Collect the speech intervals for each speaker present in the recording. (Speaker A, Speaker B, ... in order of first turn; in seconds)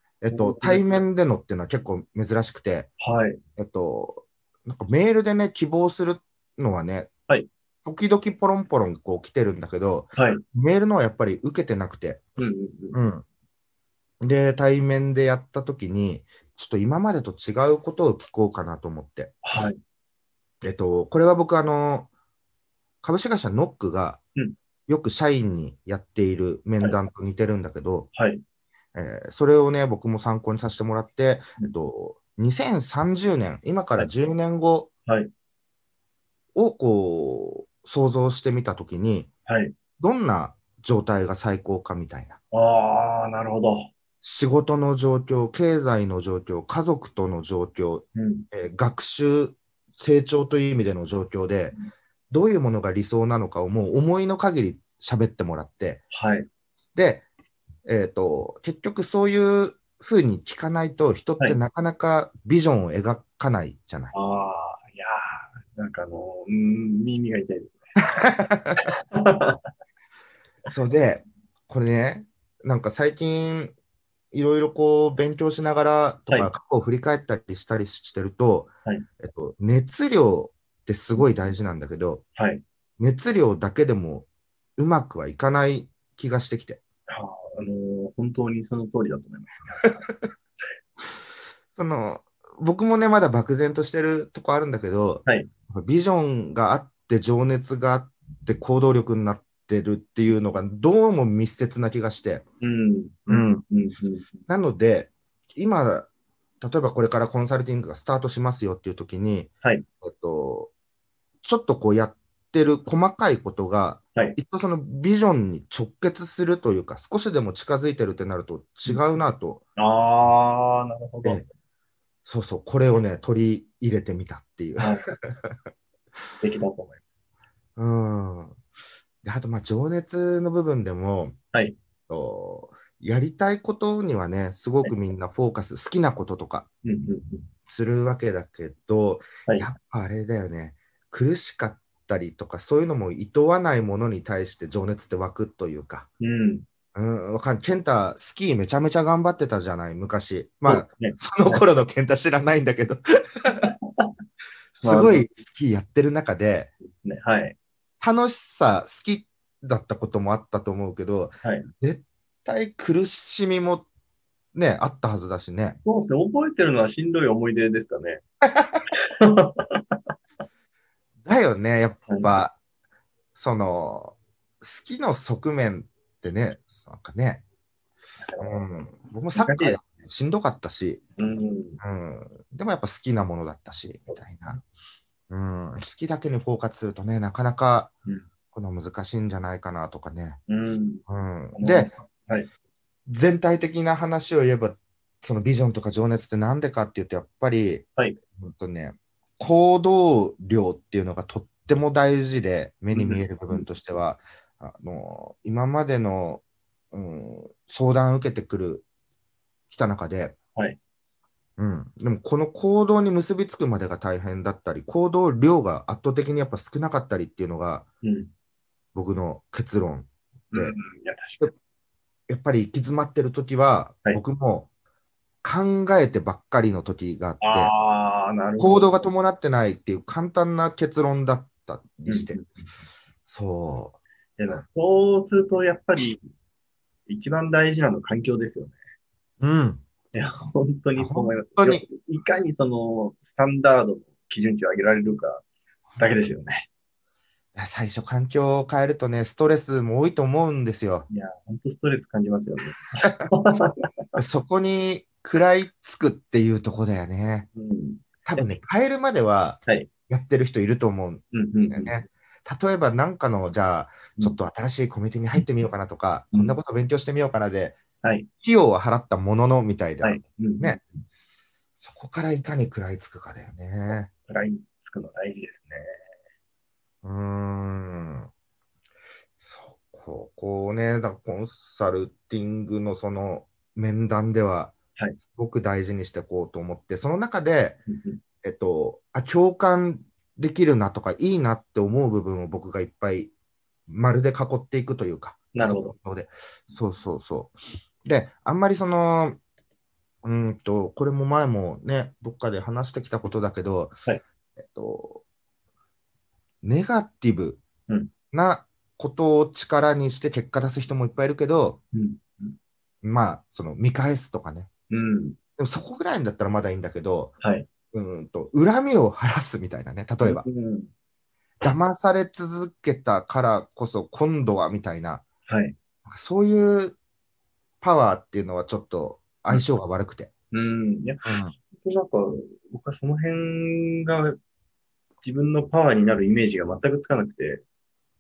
Speaker A: 0.2-2.9, 3.6-7.1, 7.8-12.2, 12.9-13.2, 14.2-19.4, 20.6-22.1, 23.0-24.2, 24.9-28.1, 28.9-34.9, 36.5-39.3, 40.0-42.4, 44.2-51.8, 52.3-56.0, 56.9-57.3, 57.9-64.1, 68.2-68.8, 70.7-73.8, 74.3-82.2, 83.0-86.8, 91.7-102.4, 103.3-103.6, 104.5-106.1, 106.6-110.7, 111.4-119.6, 122.2-125.5, 127.8-128.6, 129.2-131.4, 132.1-136.7, 137.7-146.1, 146.9-153.7, 154.7-156.7, 158.0-163.9, 164.5-165.8, 171.2-172.6, 173.3-177.4, 178.4-181.1, 181.8-184.6, 185.3-187.9, 188.5-190.4, 191.1-191.9, 193.1-197.8, 198.4-208.8, 209.7-210.3, 211.6-217.8, 218.9-220.8, 222.3-224.7, 225.4-227.7, 228.6-232.4, 233.3-234.0, 239.4-239.8, 240.9-241.9, 245.9-246.2, 247.6-251.1, 254.2-257.5, 258.3-267.8, 268.4-270.8, 271.8-274.1, 277.0-278.3, 279.4-287.8, 288.4-293.3, 293.9-299.4, 300.2-304.0, 304.6-305.2, 306.6-307.6, 308.3-311.8, 313.0-314.7, 315.6-317.4, 317.9-320.4, 321.6-325.2, 326.1-326.9, 327.8-330.3, 331.2-331.5
Speaker B: 0.3-1.1, 3.0-3.4, 10.2-10.4, 12.4-13.0, 19.4-19.8, 28.1-28.4, 39.5-39.8, 42.5-43.9, 48.2-48.5, 56.1-56.5, 64.1-68.0, 68.8-69.7, 82.4-82.6, 87.1-90.1, 102.6-104.3, 118.8-119.1, 119.8-121.4, 124.8-125.1, 126.4-127.0, 131.5-131.8, 136.8-137.5, 146.2-146.7, 150.7-151.6, 153.6-154.1, 154.8-155.3, 156.9-157.6, 161.4-161.7, 165.8-168.2, 168.9-170.1, 172.1-172.4, 178.2-178.7, 179.3-180.0, 181.2-181.8, 190.5-192.5, 202.9-203.7, 218.0-218.3, 220.5-221.5, 227.4-228.9, 232.1-232.7, 234.4-236.2, 237.1-238.8, 240.1-245.4, 246.0-246.7, 251.1-254.0, 257.6-258.5, 261.3-262.0, 266.3-266.6, 268.0-268.3, 270.0-271.0, 274.3-275.9, 287.9-288.2, 295.5-295.9, 311.9-312.6, 314.9-315.4, 317.4-317.7, 320.2-320.9, 325.5-325.8, 330.5-334.4, 335.2-337.6